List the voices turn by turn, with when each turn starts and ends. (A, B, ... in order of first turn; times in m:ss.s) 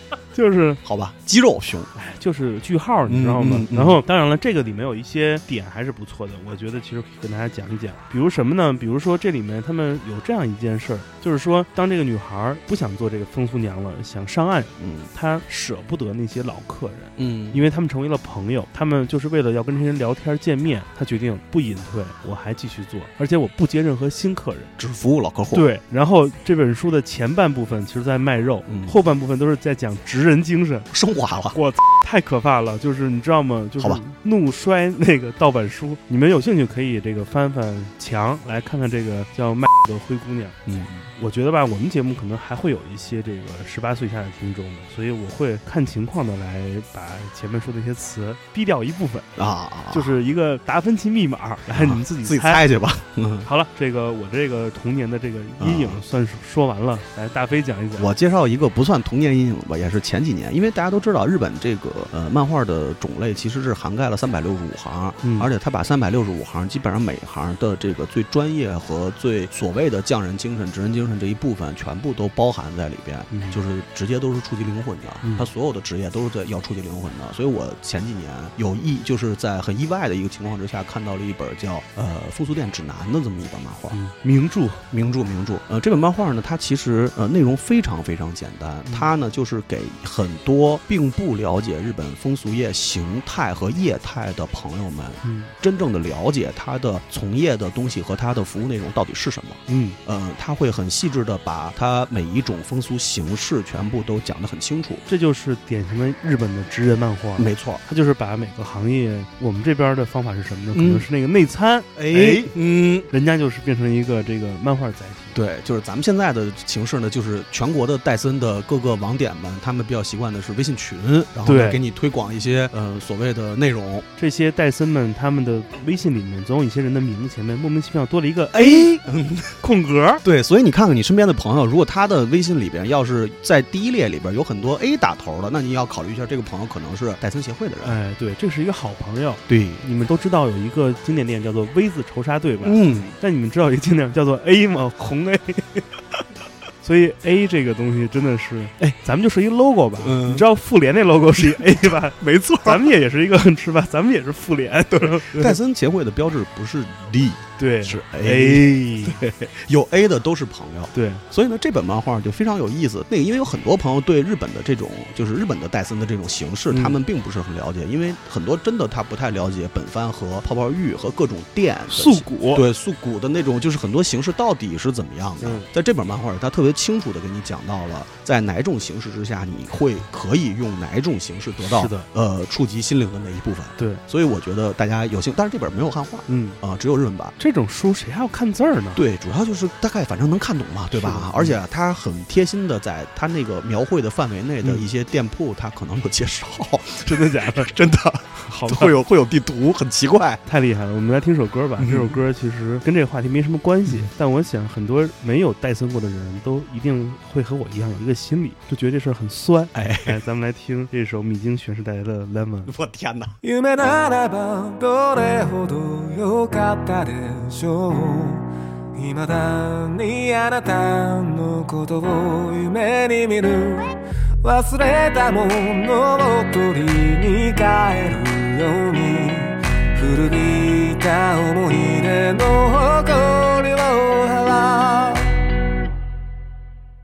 0:00.3-0:00.8 A
0:00.8-0:01.9 B
0:01.9-0:24.7 A
0:03.1-0:04.0 B
0:14.8-0:15.1 B
0:17.2-0:17.6 B
0:24.8-0:25.7 B
0:25.5-0:30.9 A
0:28.7-0:28.9 B
0:30.9-0:31.6 B
0:31.5-0:40.6 A
0:40.6-0:41.1 B
0:41.2-0:49.3 A
0:49.4-0:50.1 B
0:49.9-0:52.6 A
0:51.7-0:53.5 B
0:53.4-0:58.1 A
0:55.6-0:56.0 B
0:58.0-1:24.0 B
1:05.2-1:05.5 A
1:13.3-1:13.6 A
1:15.2-1:15.5 A
1:23.9-1:24.8 A
1:24.9-1:45.0 B
1:28.8-1:29.1 A
1:35.2-1:35.5 A
1:39.7-1:40.0 A
1:45.1-1:52.5 A
1:47.4-1:47.8 B
1:50.7-1:51.0 B
1:52.0-1:53.1 B
1:53.1-1:55.4 A
1:55.3-2:04.0 B
2:01.4-2:01.8 A
2:04.2-2:09.0 A
2:08.5-2:09.6 B
2:09.6-2:10.2 A
2:10.2-2:18.0 B
2:17.8-2:25.8 A
2:19.5-2:19.8 B
2:22.6-2:23.2 B
2:26.8-2:35.6 A
2:30.0-2:30.4 B
2:31.4-2:32.9 B
2:35.0-3:07.4 B
2:37.6-2:39.2 A
2:40.9-2:41.2 A
2:46.7-2:47.0 A
2:51.9-2:52.6 A
2:55.4-2:55.7 A
3:01.6-3:02.1 A
3:06.3-3:06.6 A
3:07.4-3:09.0 A
3:09.0-3:20.4 B
3:10.9-3:11.6 A
3:17.0-3:17.7 A
3:18.5-3:19.0 A
3:20.4-3:32.7 A
3:21.8-3:22.2 B
3:29.7-3:30.2 B
3:32.7-3:33.4 B
3:33.4-3:55.4 C